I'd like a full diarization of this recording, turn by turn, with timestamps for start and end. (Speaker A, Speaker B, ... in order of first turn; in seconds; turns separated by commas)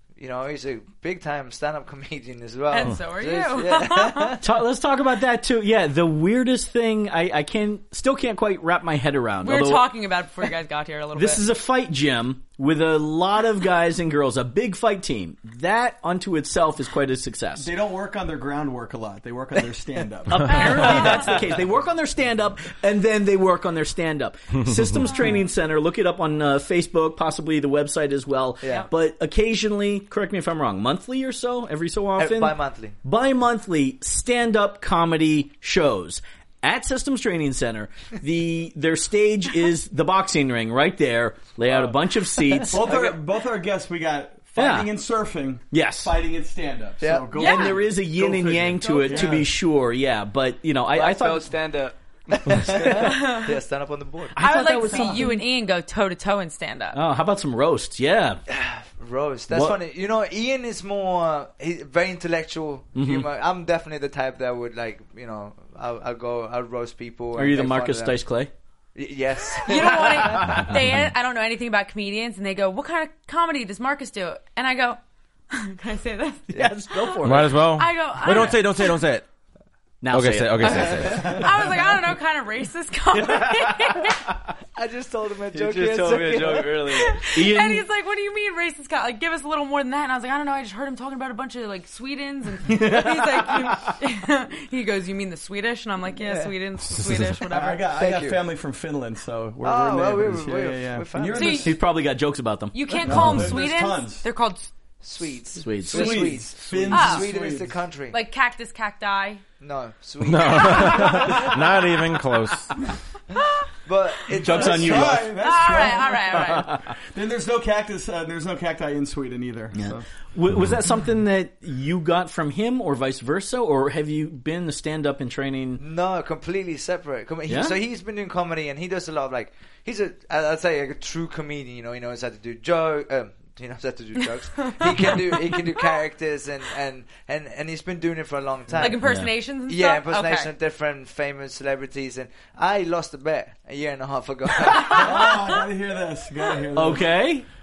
Speaker A: 0.2-4.4, Speaker B: 2.7-4.4, Speaker C: 4.4-9.9, Speaker B: 9.4-11.4, Speaker C: 11.2-17.7, Speaker D: 17.6-21.5, Speaker C: 20.3-43.1, Speaker B: 20.5-21.0, Speaker E: 24.6-25.1, Speaker B: 25.0-25.5, Speaker A: 28.6-28.9, Speaker A: 32.2-33.0, Speaker F: 41.6-42.0, Speaker A: 42.6-43.1, Speaker D: 42.7-49.5, Speaker C: 44.6-44.9, Speaker C: 45.7-46.1, Speaker A: 47.0-47.3, Speaker C: 47.3-51.5, Speaker B: 47.4-47.8, Speaker F: 50.9-52.0, Speaker A: 52.5-54.4, Speaker C: 52.6-53.0, Speaker F: 52.7-53.0, Speaker B: 53.1-53.5, Speaker C: 54.4-55.4, Speaker B: 54.4-57.0, Speaker D: 54.9-55.3, Speaker C: 56.9-58.4, Speaker A: 58.5-68.2, Speaker C: 59.5-59.8, Speaker C: 63.0-63.3, Speaker C: 67.4-68.5, Speaker A: 69.0-70.7, Speaker B: 69.7-75.0, Speaker C: 70.2-70.8, Speaker B: 75.5-79.0, Speaker C: 76.5-77.6, Speaker E: 77.2-79.3, Speaker C: 80.0-81.3, Speaker E: 80.1-81.4, Speaker B: 80.6-84.2, Speaker C: 83.2-84.2, Speaker A: 84.8-87.0, Speaker F: 85.5-87.2, Speaker B: 86.9-97.8, Speaker C: 87.2-87.8, Speaker C: 92.7-93.9, Speaker A: 96.2-96.5, Speaker D: 97.4-101.8, Speaker A: 97.9-98.4, Speaker A: 99.6-101.7, Speaker B: 101.3-101.8, Speaker C: 101.6-103.6, Speaker B: 102.7-104.7, Speaker D: 103.0-104.3, Speaker A: 105.0-108.2, Speaker C: 105.6-106.4, Speaker D: 105.8-107.8, Speaker B: 106.9-107.3, Speaker B: 108.1-109.4, Speaker A: 109.6-111.6, Speaker E: 110.2-112.8, Speaker B: 110.7-111.0, Speaker B: 113.4-113.7, Speaker A: 113.8-115.3, Speaker C: 114.4-115.3, Speaker D: 114.5-120.1, Speaker B: 115.4-116.7, Speaker C: 116.3-116.9, Speaker C: 119.7-125.8, Speaker A: 125.8-139.0, Speaker C: 127.5-127.8, Speaker B: 138.8-140.5, Speaker C: 139.0-139.3, Speaker A: 139.7-145.6, Speaker D: 144.9-147.2, Speaker C: 146.8-147.5